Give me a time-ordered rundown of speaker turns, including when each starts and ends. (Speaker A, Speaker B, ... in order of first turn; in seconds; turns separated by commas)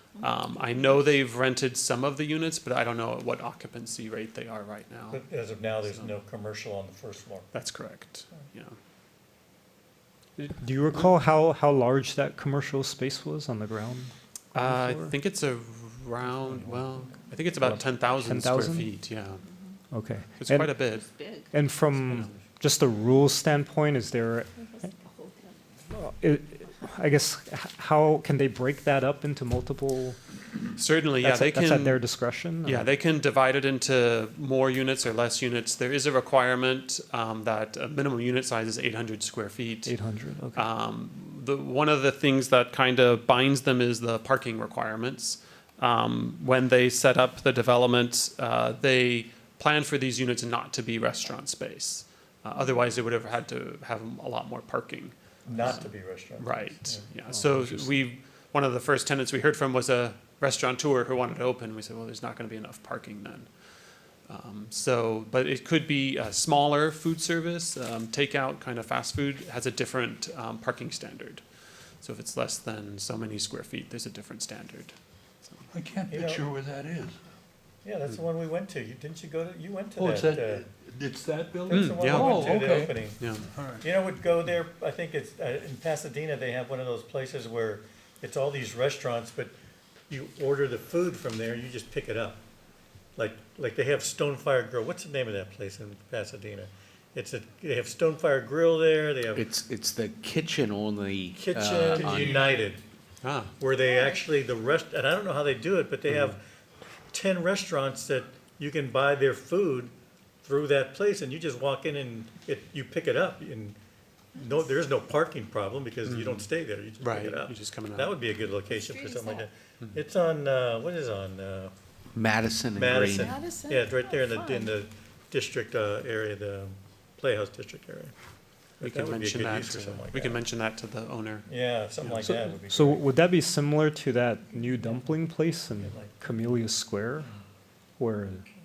Speaker A: 0.1-0.7, Speaker B: 0.2-5.2, Speaker C: 5.1-7.5, Speaker B: 5.8-6.1, Speaker B: 7.5-8.8, Speaker D: 10.4-15.2, Speaker B: 14.5-19.4, Speaker C: 16.5-16.9, Speaker D: 17.6-18.9, Speaker D: 19.9-20.8, Speaker B: 20.4-21.1, Speaker A: 21.0-21.5, Speaker D: 21.5-24.5, Speaker B: 22.0-22.3, Speaker A: 24.6-25.8, Speaker D: 25.9-30.2, Speaker B: 30.8-32.1, Speaker D: 31.2-32.9, Speaker B: 32.6-39.9, Speaker D: 39.9-40.7, Speaker B: 40.5-63.5, Speaker C: 55.5-57.0, Speaker D: 57.3-57.9, Speaker B: 64.3-71.4, Speaker B: 72.0-74.9, Speaker E: 75.7-77.2, Speaker C: 76.1-76.4, Speaker C: 77.8-80.7, Speaker E: 80.0-83.9, Speaker C: 81.6-89.5, Speaker B: 81.7-82.5, Speaker B: 83.2-83.4, Speaker C: 90.1-92.4, Speaker C: 93.2-99.5, Speaker F: 99.3-102.4, Speaker C: 101.3-102.8, Speaker A: 102.1-102.6, Speaker B: 103.2-103.5, Speaker C: 103.6-106.4, Speaker A: 103.8-104.2, Speaker C: 107.1-109.9, Speaker C: 110.4-113.8, Speaker C: 114.3-121.7, Speaker A: 114.4-114.6, Speaker B: 116.1-116.5, Speaker B: 117.0-118.1, Speaker A: 118.7-119.5, Speaker F: 122.1-123.3, Speaker C: 122.7-128.1, Speaker A: 123.1-124.8, Speaker B: 128.8-131.4, Speaker C: 128.8-130.4, Speaker C: 131.5-133.1, Speaker D: 132.1-137.3, Speaker C: 134.8-135.2, Speaker C: 135.8-136.1, Speaker D: 138.0-138.4